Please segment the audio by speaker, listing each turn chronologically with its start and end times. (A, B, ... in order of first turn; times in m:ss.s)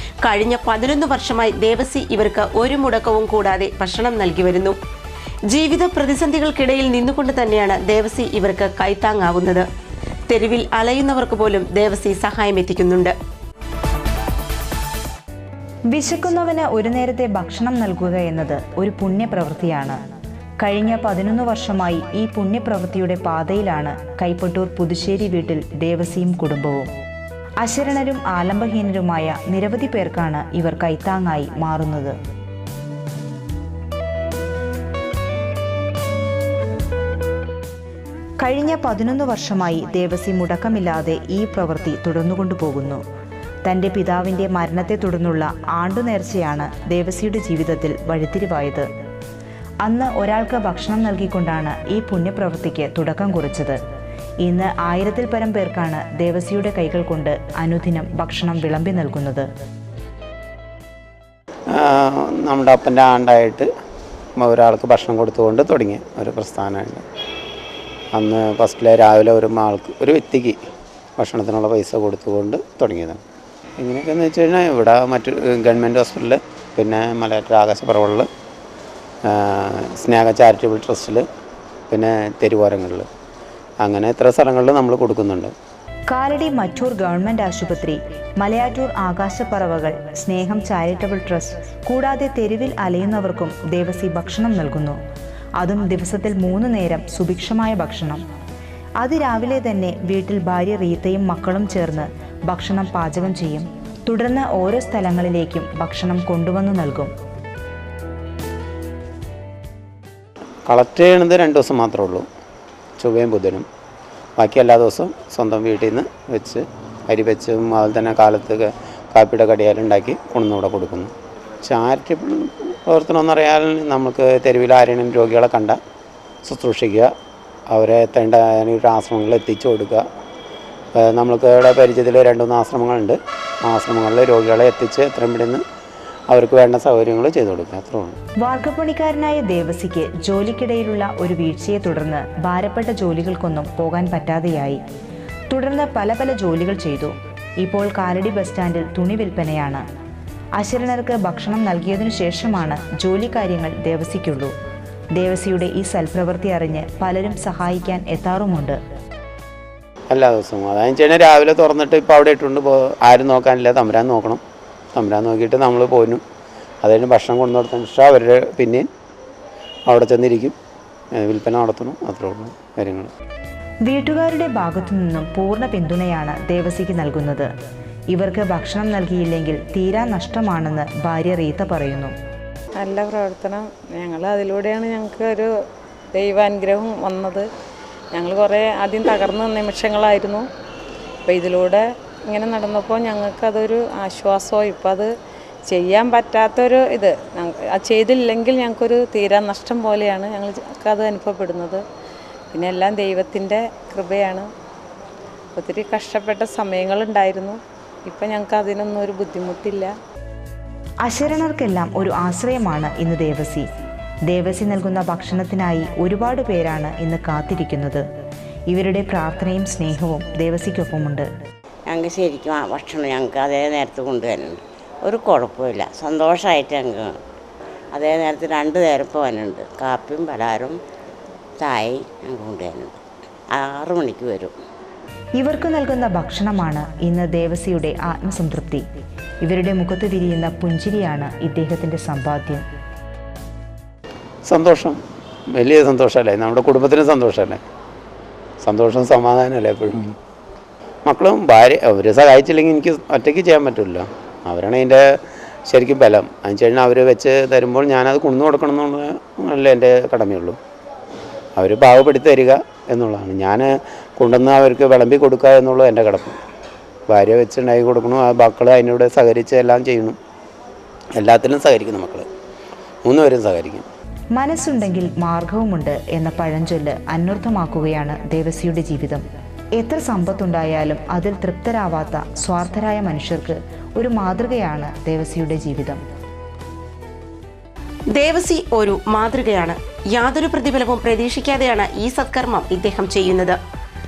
0:00.2-0:04.8 A
0:05.5-0:09.6 A
0:10.3-0:13.1 A
0:15.9-0:20.0 B
0:20.6-0:26.9 B
0:27.6-0:32.2 B
0:38.4-0:43.0 B
0:43.6-0:48.9 B
0:49.8-0:53.8 B
0:54.4-0:59.5 B
1:01.7-1:03.7 C
1:04.4-1:07.0 C
1:08.1-1:10.6 C
1:11.2-1:13.2 C
1:13.8-1:18.3 C
1:19.2-1:21.2 C
1:21.9-1:23.1 C
1:23.8-1:25.5 C
1:26.1-1:35.0 B
1:35.6-1:38.2 B
1:39.0-1:47.1 B
1:50.7-1:52.3 C
1:53.0-1:53.6 C
1:54.4-2:01.1 C
2:01.6-2:05.8 C
2:06.4-2:07.1 C
2:07.7-2:10.0 C
2:10.9-2:15.6 C
2:16.3-2:18.2 C
2:18.4-2:24.8 B
2:25.5-2:29.8 B
2:30.6-2:34.5 B
2:35.2-2:38.8 B
2:40.1-2:44.4 C
2:44.9-2:46.2 C
2:46.8-2:48.8 C
2:49.9-2:50.6 C
2:51.1-2:53.1 C
2:53.9-2:57.5 B
2:58.1-3:02.1 B
3:02.8-3:05.5 D
3:06.1-3:07.5 D
3:08.1-3:10.4 D
3:11.3-3:15.1 D
3:15.7-3:21.8 D
3:22.5-3:24.4 D
3:25.5-3:29.9 D
3:31.0-3:33.7 B
3:34.3-3:38.0 B
3:38.7-3:41.3 B
3:41.9-3:44.5 E
3:45.1-3:47.0 E
3:48.0-3:50.7 E
3:51.6-3:52.8 E
3:53.7-3:54.5 E
3:55.4-3:58.8 B
3:59.4-4:02.6 B
4:04.4-4:05.0 C
4:05.5-4:07.6 C
4:08.6-4:10.1 C
4:11.0-4:20.6 C
4:21.6-4:26.4 C
4:27.1-4:30.2 C
4:31.2-4:32.3 C
4:33.0-4:33.8 C
4:34.3-4:39.2 B
4:39.8-4:46.0 B
4:48.1-4:53.6 A